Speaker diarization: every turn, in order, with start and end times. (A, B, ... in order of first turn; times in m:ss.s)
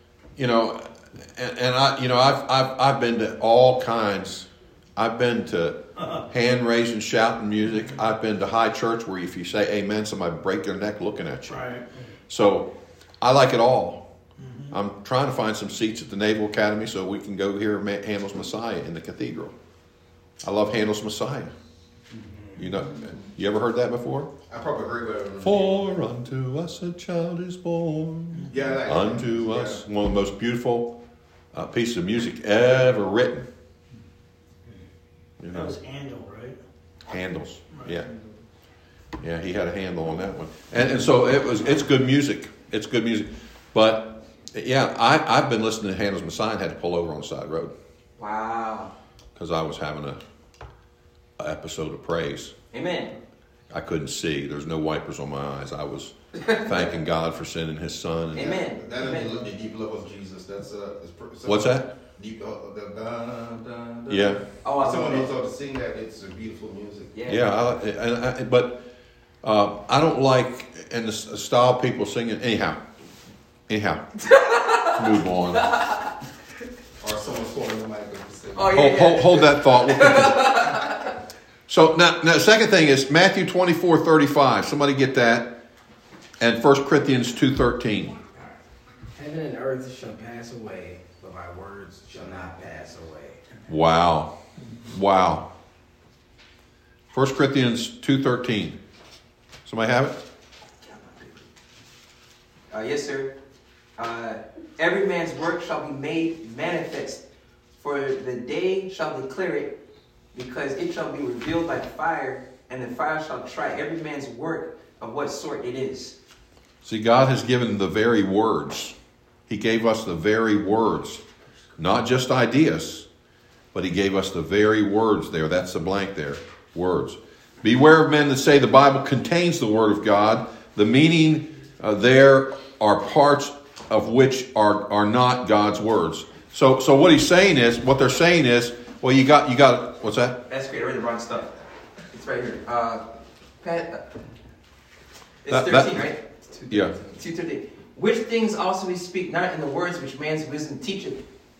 0:00.4-0:11.7 A
0:06.0-0:06.3 B
0:07.7-0:08.0 B
0:11.5-0:11.8 B
0:12.3-0:14.0 A
0:14.4-0:14.8 B
0:14.7-0:19.6 A
0:20.4-0:21.5 A
0:22.6-0:24.3 A
0:22.6-0:22.9 B
0:24.5-0:26.0 C
0:25.4-0:31.0 A
0:28.5-0:29.8 C
0:31.5-0:33.5 A
0:35.4-0:35.8 A
0:35.5-0:36.6 B
0:37.1-0:38.1 A
0:37.7-0:38.1 B
0:39.2-0:47.7 A
0:48.2-0:48.9 D
0:49.4-0:50.2 A
0:51.4-0:52.5 A
0:52.7-0:53.2 D
0:53.7-0:58.6 A
0:56.3-0:57.0 D
0:58.3-0:59.3 D
0:58.4-1:07.1 C
1:01.4-1:01.9 A
1:04.1-1:04.4 A
1:04.6-1:05.3 D
1:07.1-1:07.4 D
1:07.2-1:08.8 A
1:09.4-1:12.8 A
1:13.7-1:14.0 A
1:14.2-1:16.0 D
1:14.9-1:15.7 A
1:17.0-1:18.9 C
1:18.5-1:21.1 D
1:18.7-1:20.6 A
1:21.7-1:25.6 A
1:26.4-1:28.2 A
1:29.1-1:33.6 E
1:33.7-1:35.5 A
1:37.1-1:38.8 A
1:39.6-1:40.2 A
1:40.8-1:41.4 D
1:42.7-1:43.3 D
1:44.0-1:47.2 D
1:47.8-1:49.7 D
1:50.3-1:56.2 D
1:56.8-1:59.0 A
1:59.5-2:01.2 A
2:01.8-2:03.1 A
2:03.7-2:20.4 A
2:20.5-2:21.6 D
2:22.1-2:23.0 D
2:23.6-2:24.2 D
2:25.4-2:31.2 D
2:25.5-2:26.1 A
2:26.7-2:26.9 A